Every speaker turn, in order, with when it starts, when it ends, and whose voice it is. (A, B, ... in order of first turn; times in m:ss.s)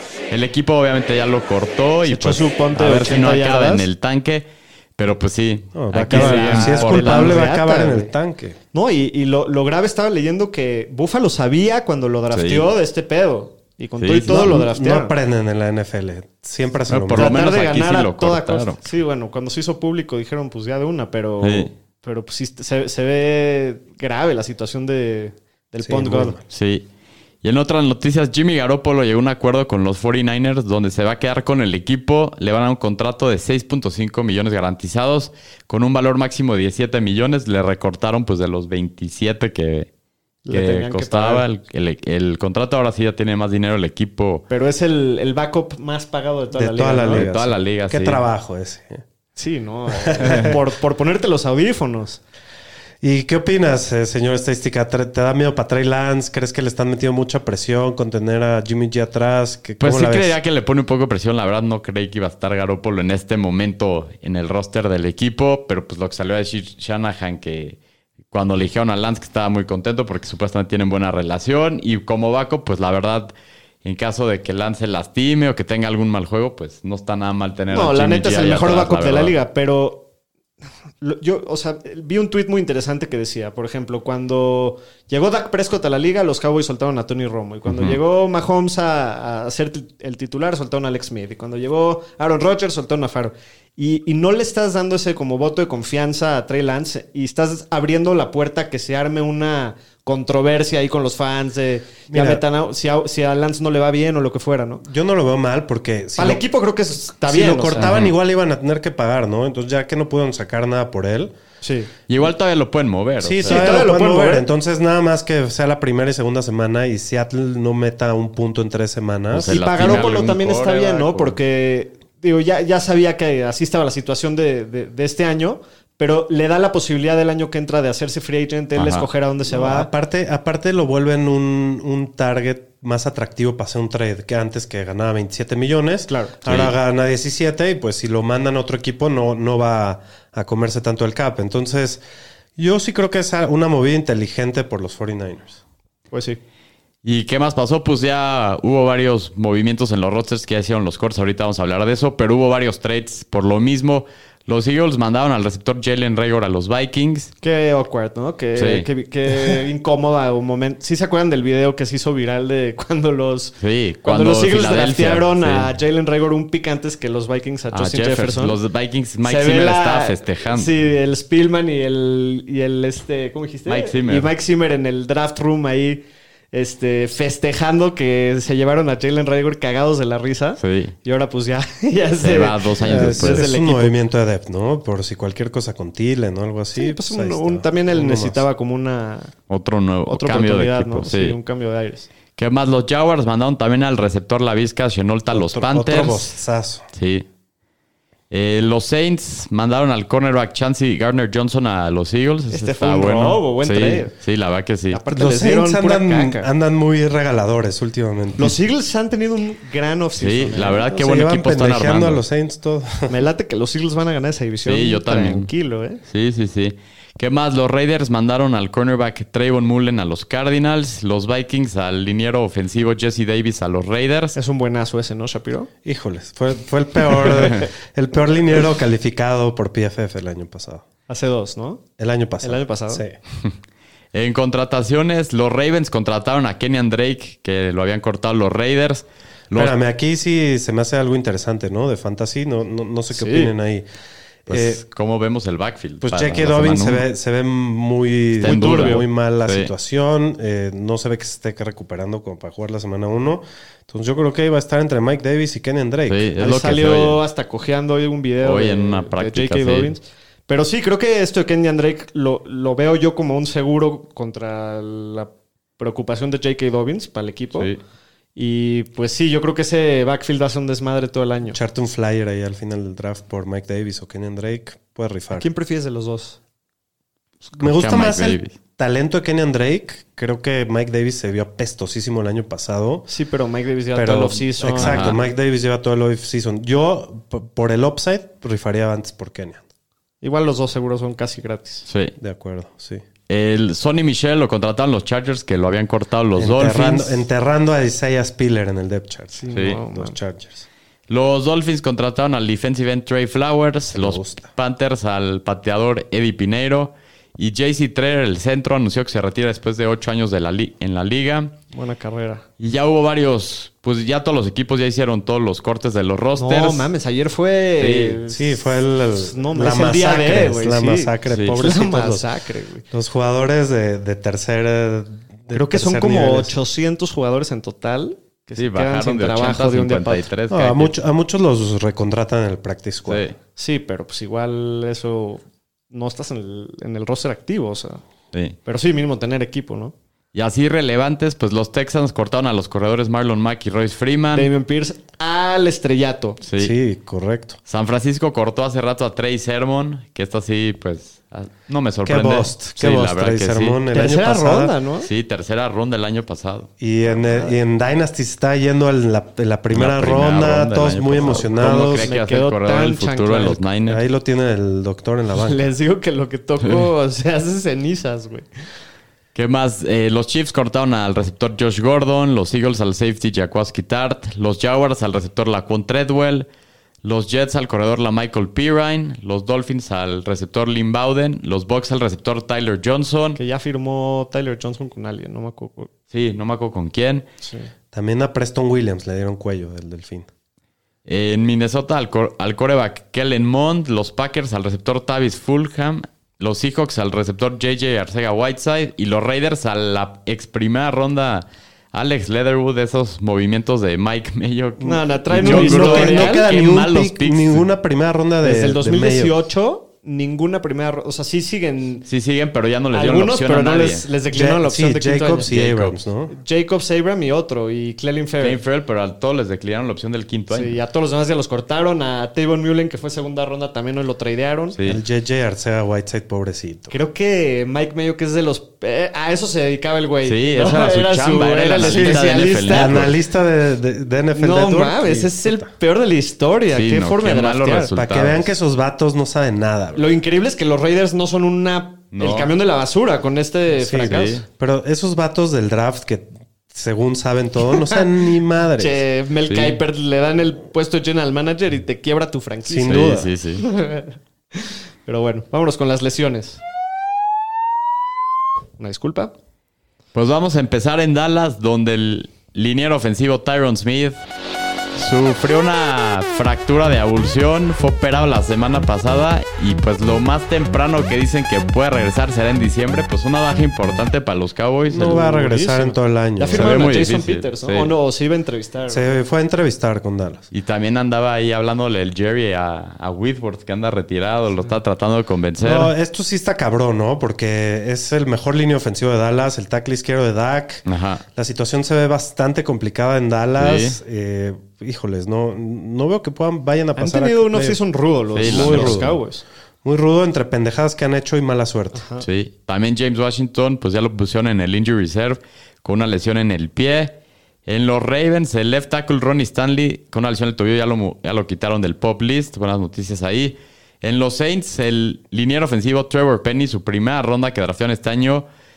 0:00.3-0:04.4 A
0:02.0-0:03.8 B
0:05.0-0:07.4 A
0:05.7-0:08.6 C
0:06.0-0:08.1 B
0:08.7-0:15.1 B
0:12.3-0:12.7 A
0:14.0-0:14.6 A
0:14.2-0:17.4 C
0:16.9-0:18.8 A
0:17.2-0:26.4 B
0:21.4-0:21.7 A
0:25.8-0:26.4 C
0:26.5-0:26.8 A
0:27.4-0:39.9 A
0:40.4-0:41.4 B
0:40.5-0:44.4 A
0:44.5-0:47.2 B
0:46.5-0:49.0 C
0:47.1-0:48.2 A
0:49.4-0:52.2 B
0:49.9-0:50.6 C
0:50.2-0:50.5 A
0:53.0-1:00.4 C
0:59.8-1:07.8 A
1:08.3-1:13.3 A
1:13.8-1:19.3 A
1:17.7-1:20.0 B
1:21.0-1:44.8 B
1:27.6-1:28.0 A
1:42.1-1:42.4 C
1:44.8-1:46.4 C
1:46.2-1:47.9 B
1:47.2-1:51.3 C
1:47.8-1:48.1 A
1:51.6-1:51.9 B
1:52.1-1:53.8 A
1:53.2-2:00.0 C
1:53.4-1:54.5 B
1:59.3-2:01.4 A
1:59.4-2:09.9 B
2:08.8-2:09.0 A
2:09.5-2:22.0 C
2:16.1-2:16.3 B
2:16.4-2:16.7 A
2:22.6-2:25.6 C
2:26.1-2:26.4 B
2:27.0-2:37.3 A
2:37.4-2:48.6 B
2:38.6-2:38.9 A
2:43.6-2:45.7 A
2:47.7-2:50.7 A
2:49.2-3:04.0 B
2:53.7-2:54.3 A
3:00.6-3:00.9 A
3:02.2-3:03.5 A
3:02.8-3:08.4 C
3:06.7-3:09.3 B
3:09.5-3:11.4 A
3:10.1-3:12.1 B
3:12.4-3:16.3 A
3:15.3-3:16.8 C
3:16.9-3:17.2 A
3:18.3-3:25.0 A
3:22.5-3:24.1 B
3:24.9-3:26.5 B
3:25.1-3:28.5 C
3:28.4-3:30.8 B
3:30.2-3:32.2 A
3:30.9-3:33.1 C
3:33.1-3:36.0 B
3:34.6-3:35.5 A
3:36.0-3:44.4 A
3:44.3-3:45.7 B
3:45.8-3:50.8 C
3:51.1-3:51.8 B
3:52.0-3:53.2 C
3:52.4-3:53.0 B
3:54.1-3:59.7 A
3:59.5-4:03.9 C
4:03.1-4:03.5 B
4:04.5-4:04.8 C
4:04.5-4:07.0 A
4:06.0-4:16.2 C
4:08.4-4:09.7 A
4:08.4-4:09.0 B
4:16.1-4:17.2 A
4:16.4-4:27.7 B
4:18.4-4:19.9 A
4:28.4-4:31.6 B
4:31.5-4:35.5 C
4:35.3-4:36.4 B
4:37.6-4:43.0 C
4:37.6-4:38.5 A
4:43.1-4:45.2 B
4:43.9-4:49.6 C
4:44.7-4:45.2 A
4:50.2-4:51.8 B
4:51.8-4:52.1 A
4:52.2-4:53.0 C
4:53.3-4:57.2 A
4:56.4-5:00.6 C
4:59.4-5:00.2 B
4:59.5-4:59.8 A
5:01.1-5:11.5 A
5:03.9-5:04.5 C
5:11.7-5:12.4 B
5:12.6-5:16.9 A
5:16.4-5:22.8 B
5:17.8-5:18.2 A
5:18.3-5:22.2 C
5:21.3-5:21.6 A
5:22.9-5:26.6 C
5:25.5-5:30.3 B
5:28.6-5:30.9 A
5:30.5-5:33.3 C
5:33.1-5:33.3 A
5:33.6-5:38.0 B
5:38.6-5:39.9 B
5:40.3-5:44.5 A
5:44.3-5:46.4 B
5:46.4-5:46.8 A
5:46.6-5:47.6 C
5:47.7-5:53.8 A
5:52.0-5:54.7 C
5:53.9-5:55.1 B
5:55.0-5:56.7 A
5:56.8-6:02.1 C
5:57.1-5:57.5 B
5:59.7-6:04.0 A
6:01.2-6:03.6 B
6:03.9-6:05.6 C
6:05.4-6:08.5 B
6:09.3-6:16.5 A
6:17.0-6:23.4 A
6:23.4-6:25.9 B
6:26.1-6:27.2 A
6:27.4-6:27.7 B
6:27.9-6:30.3 C
6:31.0-6:47.7 A
6:44.8-6:46.5 B
6:45.3-6:49.3 C
6:48.4-6:52.1 B
6:52.1-6:54.1 A
6:52.9-6:55.5 B
6:54.3-6:56.3 C
6:55.5-6:55.9 A
6:56.3-6:58.6 B
6:58.4-7:00.8 A
7:00.5-7:04.8 B
7:04.8-7:06.9 C
7:06.9-7:13.1 B
7:10.2-7:13.2 A
7:11.8-7:15.7 C
7:14.4-7:17.9 B
7:16.7-7:18.5 A
7:17.9-7:20.0 C
7:19.9-7:24.4 B
7:22.1-7:22.5 A
7:23.8-7:29.0 C
7:24.1-7:24.4 A
7:27.8-7:28.0 B
7:28.8-7:36.6 B
7:29.5-7:29.8 A
7:32.6-7:33.3 C
7:32.8-7:33.6 A
7:38.8-7:39.3 B
7:40.1-7:44.2 A
7:44.9-7:55.2 A
7:54.9-7:56.9 C
7:55.0-7:59.1 B
7:56.5-7:57.9 A
7:58.9-8:00.5 C
8:00.5-8:05.9 A
8:05.6-8:17.8 C
8:10.9-8:11.2 A
8:13.6-8:14.0 A
8:17.0-8:19.4 B
8:18.3-8:19.1 A
8:18.4-8:19.2 C
8:19.8-8:22.0 C
8:21.9-8:22.2 B
8:22.2-8:27.1 A
8:27.6-8:38.4 A